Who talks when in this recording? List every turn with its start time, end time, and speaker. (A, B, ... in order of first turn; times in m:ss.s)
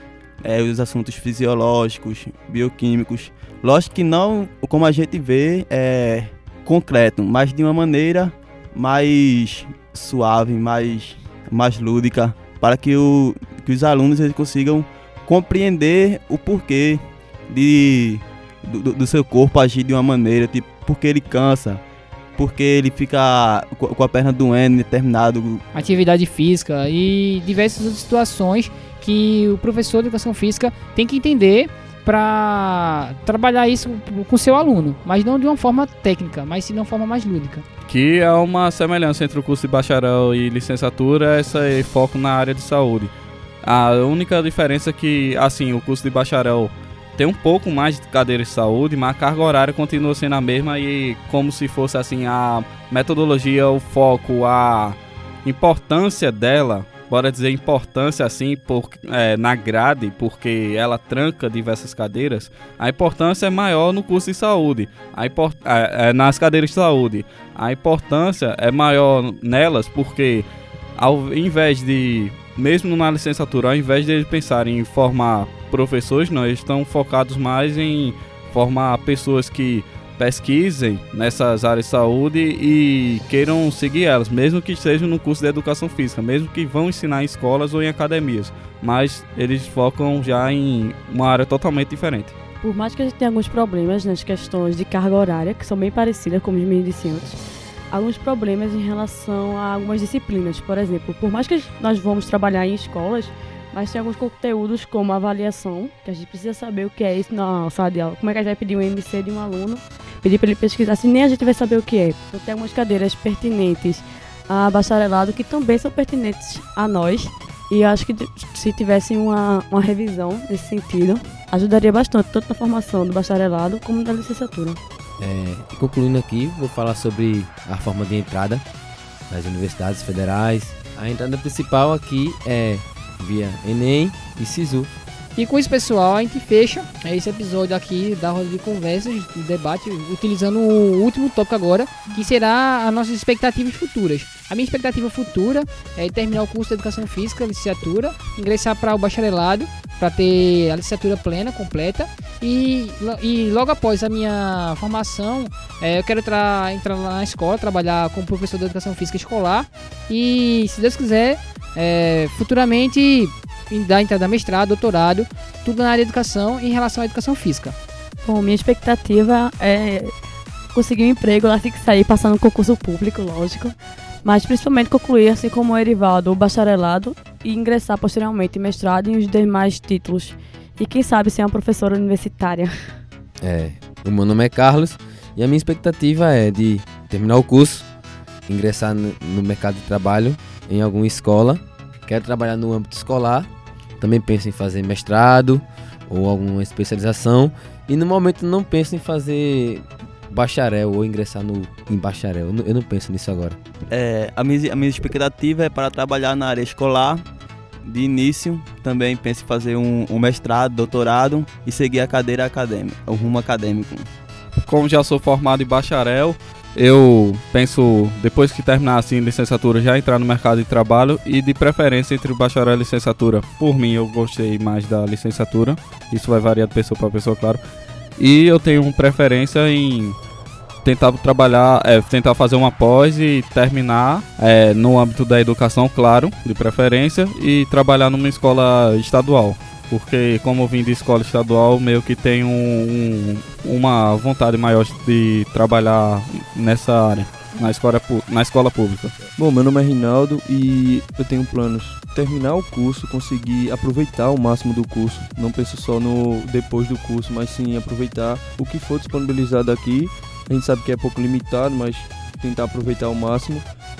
0:00.4-0:21.8 A
0:22.4-0:25.6 A
0:25.7-0:37.6 B
0:37.9-0:43.1 C
0:43.6-1:32.3 C
1:32.6-2:04.8 D
2:05.2-2:08.6 E
2:09.3-2:14.9 E
2:15.4-2:47.8 B
2:48.2-2:50.1 D
2:50.7-3:02.7 D
3:03.4-3:07.9 E
3:08.5-3:13.5 E
3:14.0-3:23.6 E
3:23.9-3:27.2 A
3:27.8-3:34.1 A
3:34.6-3:47.6 C
3:48.2-3:50.2 C
3:50.8-4:09.2 C
4:09.3-4:23.6 F